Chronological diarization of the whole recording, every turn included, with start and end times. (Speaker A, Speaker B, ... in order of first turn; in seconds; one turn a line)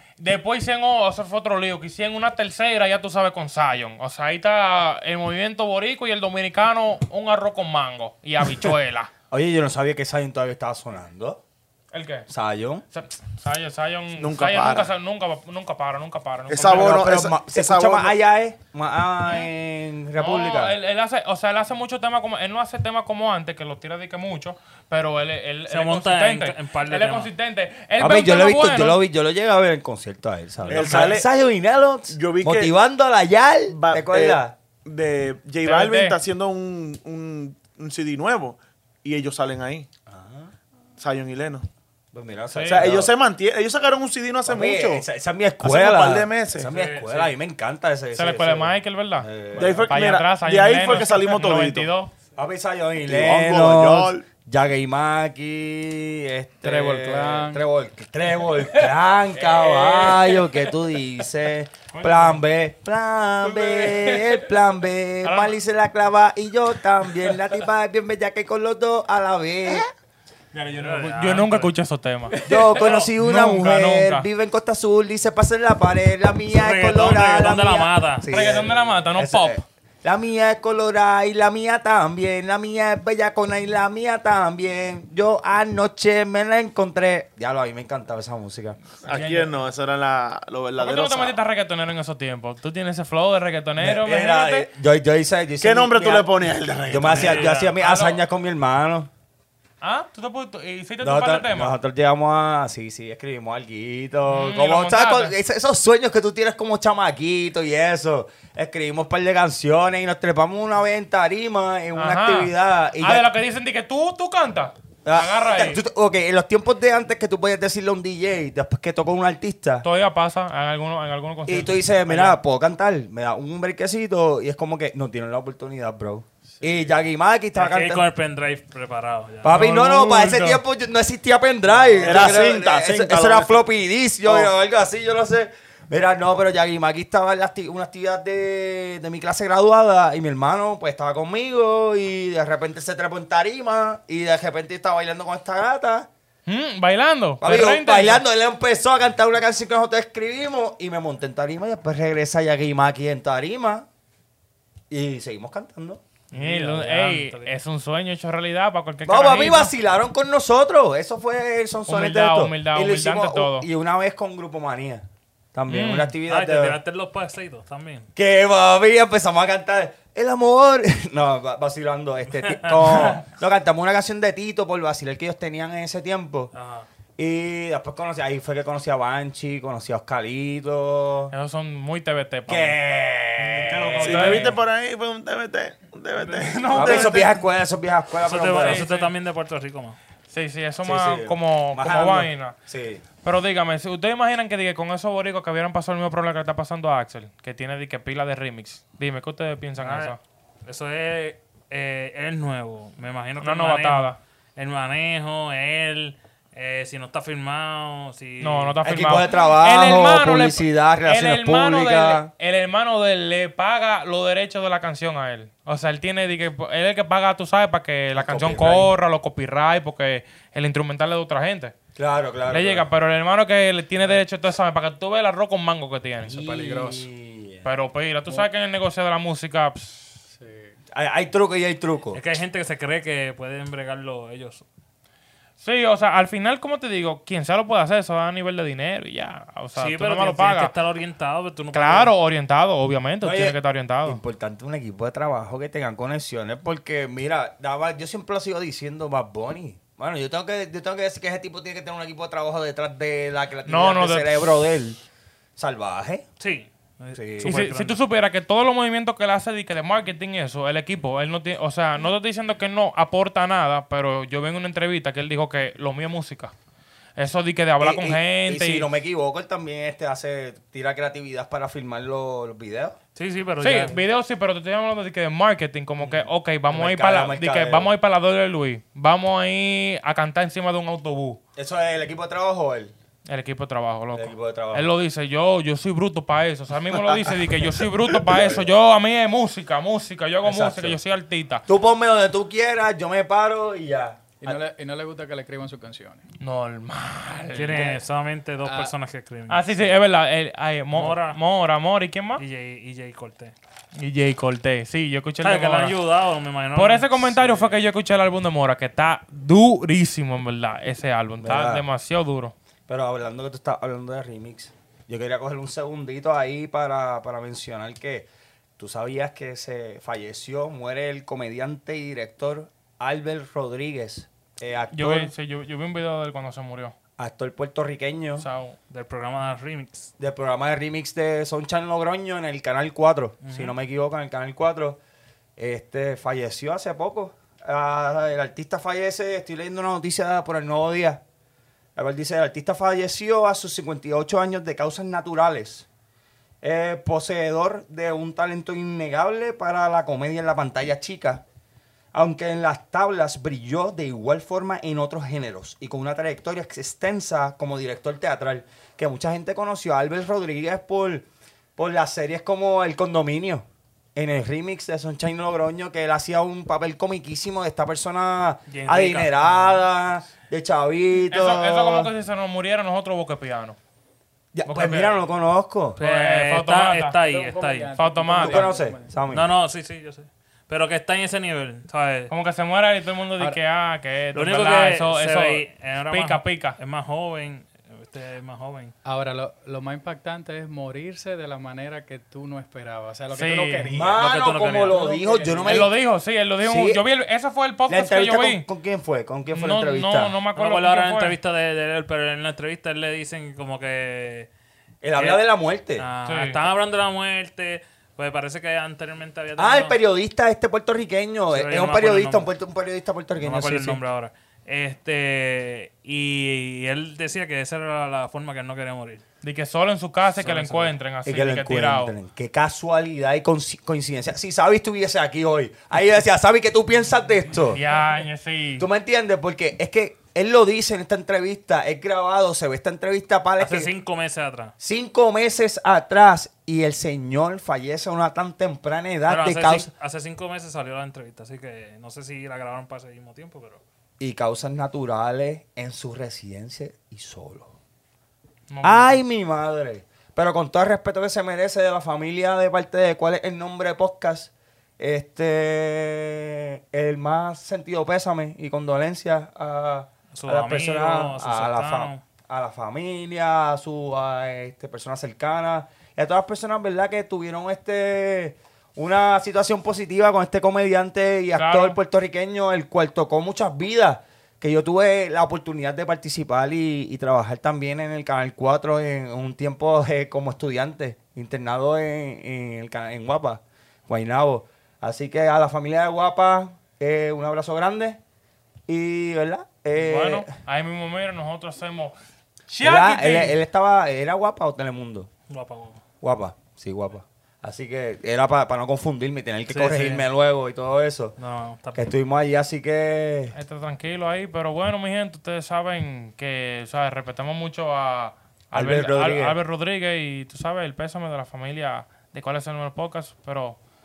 Speaker A: 0.2-9.1
Speaker B: 9.3-11.4
Speaker A: 11.9-12.3
Speaker B: 12.3-12.8
Speaker A: 12.9-17.1
Speaker C: 14.2-14.9
Speaker C: 16.5-18.1
Speaker B: 16.5-20.8
Speaker A: 20.2-29.0
Speaker D: 25.7-27.3
Speaker B: 28.0-34.6
Speaker A: 30.6-31.2
Speaker C: 30.7-31.3
Speaker C: 32.1-32.7
Speaker C: 33.7-39.9
Speaker A: 35.6-36.2
Speaker B: 40.1-40.5
Speaker C: 41.0-41.6
Speaker B: 42.1-43.1
Speaker A: 42.5-42.9
Speaker C: 42.7-45.0
Speaker B: 44.5-49.9
Speaker C: 45.6-46.7
Speaker D: 46.7-47.3
Speaker A: 48.1-52.1
Speaker C: 49.5-51.9
Speaker B: 52.4-69.9
Speaker C: 53.1-54.2
Speaker E: 56.6-57.6
Speaker E: 59.5-60.5
Speaker A: 61.9-62.4
Speaker E: 63.5-64.5
Speaker A: 65.2-65.5
Speaker A: 70.5-74.3
Speaker D: 70.7-71.7
Speaker B: 72.5-88.8
Speaker D: 72.8-73.1
Speaker D: 76.5-78.3
Speaker A: 78.3-79.6
Speaker C: 89.0-91.4
Speaker A: 89.1-89.5
Speaker A: 90.8-94.7
Speaker B: 93.8-96.3
Speaker C: 95.6-97.6
Speaker B: 96.9-99.1
Speaker A: 97.4-98.2
Speaker A: 99.8-101.8
Speaker B: 101.0-113.3
Speaker A: 104.3-105.3
Speaker A: 112.0-115.8
Speaker B: 115.0-119.9
Speaker A: 119.8-122.4
Speaker B: 121.5-128.1
Speaker E: 126.5-126.9
Speaker D: 127.5-129.8
Speaker B: 129.4-146.1
Speaker A: 129.5-130.6
Speaker E: 131.7-132.5
Speaker C: 132.0-133.7
Speaker C: 134.3-134.5
Speaker A: 146.5-148.2
Speaker B: 147.4-153.9
Speaker B: 154.9-156.0
Speaker D: 156.3-157.6
Speaker A: 156.3-159.7
Speaker B: 159.0-166.8
Speaker A: 161.9-163.7
Speaker A: 165.7-166.1
Speaker D: 166.3-168.1
Speaker B: 168.2-176.5
Speaker D: 176.5-176.9
Speaker B: 177.2-181.3
Speaker A: 181.3-182.8
Speaker B: 182.5-184.4
Speaker D: 183.4-184.6
Speaker A: 183.6-184.6
Speaker C: 183.9-187.3
Speaker A: 186.2-187.3
Speaker B: 186.7-188.9
Speaker D: 188.2-190.0
Speaker A: 188.6-189.1
Speaker A: 190.3-192.6
Speaker B: 190.8-193.0
Speaker A: 193.2-200.2
Speaker D: 199.8-208.8
Speaker A: 203.4-204.2
Speaker A: 208.4-221.7
Speaker B: 208.8-212.3
Speaker B: 218.2-218.9
Speaker B: 222.0-222.9
Speaker A: 222.5-226.4
Speaker B: 226.2-227.7
Speaker E: 226.3-227.1
Speaker A: 227.6-230.2
Speaker E: 230.3-230.7
Speaker B: 230.9-232.2
Speaker D: 232.1-234.6
Speaker A: 235.6-240.7
Speaker D: 239.8-242.1
Speaker A: 241.7-244.2
Speaker B: 243.2-255.0
Speaker A: 253.7-254.6
Speaker B: 255.6-256.3
Speaker D: 256.4-258.0
Speaker B: 257.1-257.6
Speaker A: 257.4-266.5
Speaker A: 267.2-268.9
Speaker B: 267.8-273.0
Speaker D: 273.1-274.0
Speaker A: 273.6-281.4
Speaker B: 276.0-277.9
Speaker B: 281.6-282.9
Speaker A: 283.3-291.6
Speaker B: 284.1-284.9
Speaker B: 288.3-288.6
Speaker B: 290.4-291.0
Speaker B: 291.7-294.6
Speaker E: 294.4-296.2
Speaker A: 296.4-298.0
Speaker D: 297.5-300.0
Speaker E: 298.6-298.9
Speaker A: 299.5-302.4
Speaker D: 300.9-301.4
Speaker D: 302.4-303.5
Speaker A: 303.9-306.0
Speaker D: 305.4-307.8
Speaker A: 306.8-312.5
Speaker B: 311.4-311.9
Speaker B: 312.9-325.3
Speaker A: 324.9-326.9
Speaker B: 327.2-328.5
Speaker A: 328.4-328.8
Speaker D: 328.9-330.1
Speaker B: 330.2-335.0
Speaker D: 333.4-333.7
Speaker B: 335.6-341.2
Speaker B: 342.0-345.9
Speaker B: 346.6-351.4
Speaker B: 352.1-361.2
Speaker B: 361.8-372.1
Speaker D: 368.7-369.8
Speaker A: 371.3-373.8
Speaker B: 374.5-376.0
Speaker A: 374.7-375.1
Speaker A: 376.0-377.2
Speaker D: 376.0-377.9
Speaker E: 377.3-379.1
Speaker A: 377.9-378.7
Speaker B: 378.4-379.5
Speaker D: 379.3-382.3
Speaker A: 382.3-386.8
Speaker D: 384.3-388.9
Speaker E: 389.0-395.9
Speaker A: 393.3-393.9
Speaker B: 393.9-395.9
Speaker D: 394.1-395.0
Speaker A: 395.6-398.6
Speaker B: 396.6-397.0
Speaker B: 397.9-400.4
Speaker A: 399.5-401.4
Speaker D: 400.5-404.5
Speaker B: 405.0-406.1
Speaker D: 405.1-410.0
Speaker A: 406.2-406.6
Speaker B: 409.6-414.0
Speaker D: 411.5-412.5
Speaker D: 413.4-419.2
Speaker A: 419.4-422.1
Speaker D: 420.4-421.0
Speaker B: 421.2-427.8
Speaker A: 427.7-428.9
Speaker B: 428.8-433.9
Speaker D: 433.6-434.7
Speaker B: 434.8-439.9
Speaker D: 439.3-443.8
Speaker B: 444.2-447.7
Speaker A: 448.7-449.2
Speaker B: 448.8-488.2
Speaker D: 460.4-462.2
Speaker A: 471.6-472.0
Speaker B: 488.9-490.5
Speaker A: 490.0-492.1
Speaker A: 492.7-493.6
Speaker B: 492.8-495.3
Speaker D: 495.5-496.0
Speaker B: 496.2-501.4
Speaker D: 499.7-500.2
Speaker D: 501.4-502.1
Speaker B: 501.9-503.5
Speaker A: 503.5-513.8
Speaker B: 508.7-509.6